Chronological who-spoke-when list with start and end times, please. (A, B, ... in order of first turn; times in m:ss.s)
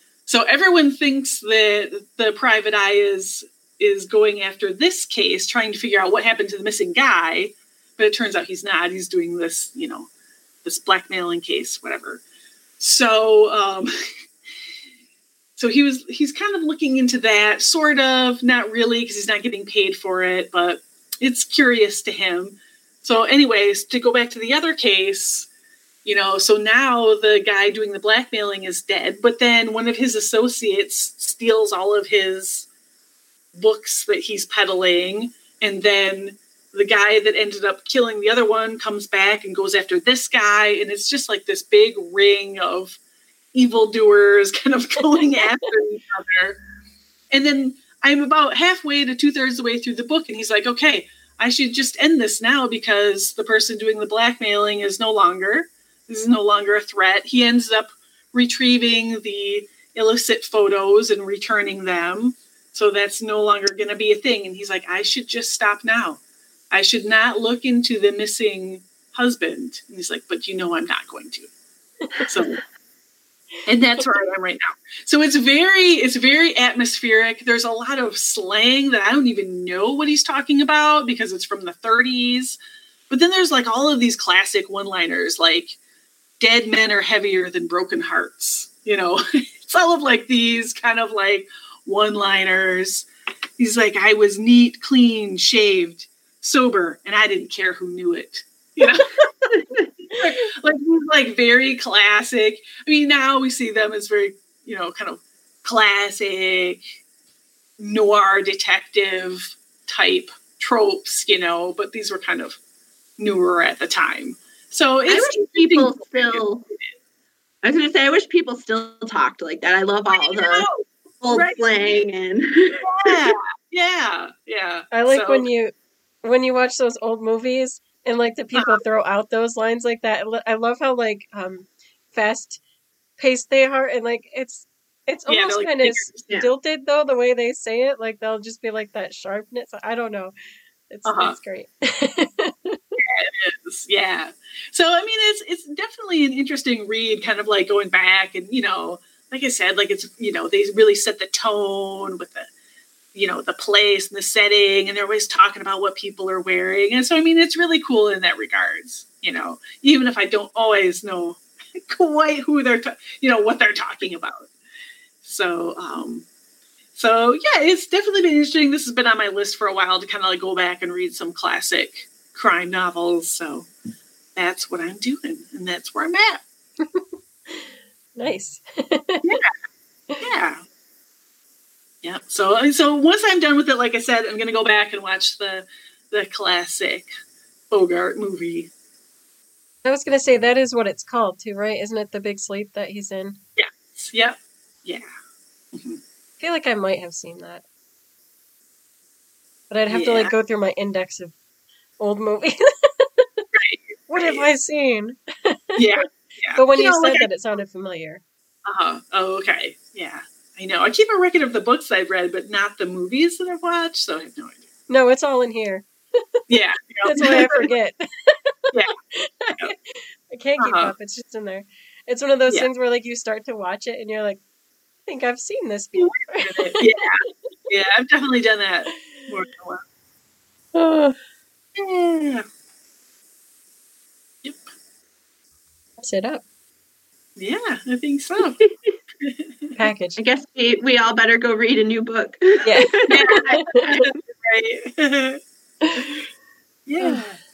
0:00.3-0:10.1 A
0:10.6-0:12.2 A
0:12.8-0:13.9 A
0:15.6-0:25.5 A
0:26.0-0:32.7 A
0:33.5-0:43.0 A
0:43.5-0:46.6 A
0:47.3-1:06.2 A
1:06.7-1:11.5 A
1:12.2-1:12.6 A
1:13.7-1:22.6 A
1:23.1-1:25.8 A
1:26.4-1:33.1 A
1:33.6-1:39.2 A
1:39.5-1:39.8 B
1:40.1-1:46.9 A
1:47.8-1:52.6 A
1:53.2-1:56.9 A
1:55.1-1:56.6 B
1:57.6-2:00.7 B
2:00.1-2:02.0 A
2:01.2-2:03.2 B
2:02.8-2:05.5 A
2:04.9-2:05.7 C
2:06.2-2:12.6 C
2:13.2-2:20.3 C
2:15.3-2:16.3 A
2:20.9-2:22.8 C
2:21.1-2:21.4 A
2:23.0-2:32.5 A
2:33.2-2:44.5 A
2:45.2-2:46.3 A
2:47.0-2:53.7 A
2:54.4-2:56.4 A
2:56.8-2:59.4 C
2:59.2-2:59.5 A
3:00.2-3:00.6 A
3:02.0-3:07.1 A
3:07.7-3:08.7 A
3:09.8-3:13.4 C
3:13.6-3:15.1 A
3:15.7-3:16.0 A
3:16.4-3:17.6 C
3:19.7-3:21.3 C
3:19.9-3:20.3 A
3:22.0-3:23.4 C
3:23.5-3:24.5 A
3:24.1-3:25.8 C
3:25.8-3:27.3 A
3:26.6-3:28.2 C
3:28.7-3:34.7 A
3:34.9-3:36.4 C
3:36.5-3:37.7 A
3:37.1-3:44.4 C
3:40.6-3:40.9 A
3:45.1-3:46.9 C
3:46.0-3:49.8 A
3:50.8-3:51.2 C
3:51.8-3:52.4 A
3:56.0-3:56.4 C
3:57.4-3:58.6 A
3:59.2-3:59.7 A
3:59.8-4:00.2 C
4:00.2-4:04.1 B
4:02.6-4:03.8 C
4:03.1-4:05.4 A
4:05.8-4:06.1 C
4:06.9-4:07.4 A